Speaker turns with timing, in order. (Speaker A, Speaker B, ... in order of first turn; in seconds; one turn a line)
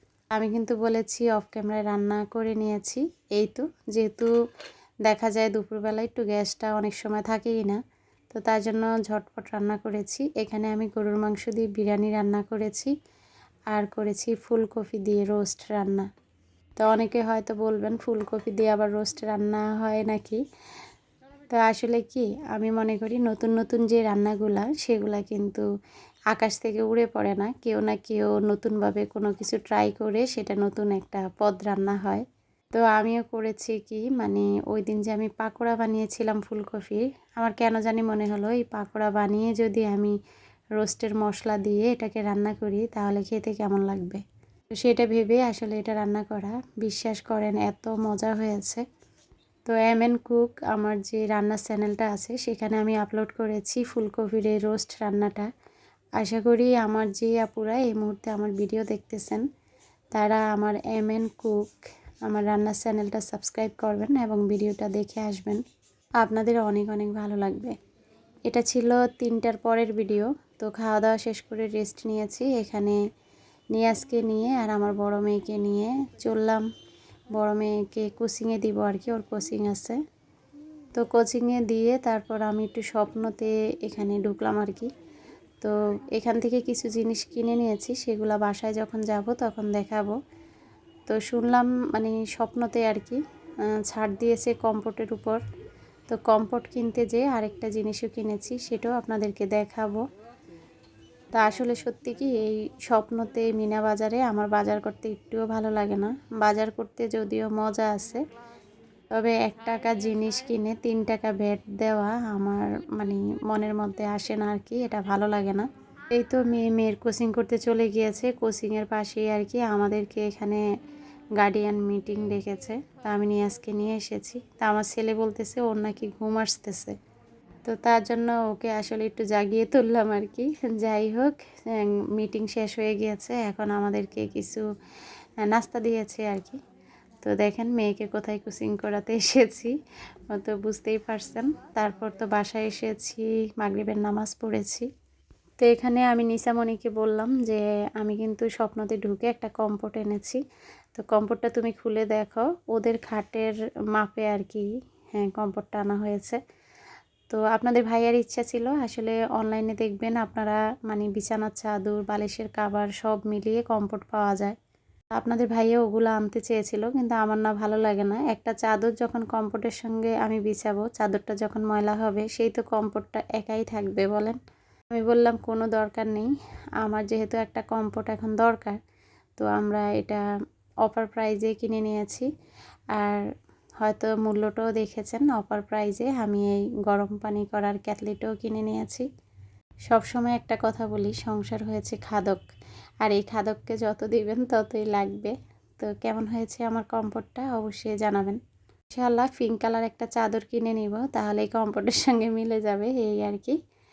Speaker A: 0.3-4.3
Speaker A: 5.1-7.8
Speaker A: 8.3-12.9
Speaker A: 13.7-16.1
Speaker A: 16.8-20.4
Speaker A: 21.5-25.7
Speaker A: 26.3-32.2
Speaker A: 32.8-40.1
Speaker A: 40.8-44.2
Speaker A: 44.8-48.9
Speaker A: 49.7-55.5
Speaker A: 56.2-59.5
Speaker A: 60.1-61.7
Speaker A: 62.2-65.6
Speaker A: 66.2-67.8
Speaker A: 68.5-73.0
Speaker A: 73.7-76.7
Speaker A: 77.3-80.0
Speaker A: 81.0-84.9
Speaker A: 85.6-90.2
Speaker A: 91.1-95.4
Speaker A: 96.1-100.0
Speaker A: 101.3-108.2
Speaker A: 109.1-120.6
Speaker A: 121.4-127.0
Speaker A: 127.7-134.7
Speaker A: 135.4-136.6
Speaker A: 137.2-139.8
Speaker A: 140.3-144.9
Speaker A: 145.6-150.4
Speaker A: 150.9-156.4
Speaker A: 157.3-164.6
Speaker A: 165.2-174.4
Speaker A: 174.9-178.8
Speaker A: 179.4-180.2
Speaker A: 180.8-182.3
Speaker A: 182.9-183.3
Speaker A: 183.8-189.1
Speaker A: 189.9-192.5
Speaker A: 193.0-198.4
Speaker A: 198.9-203.6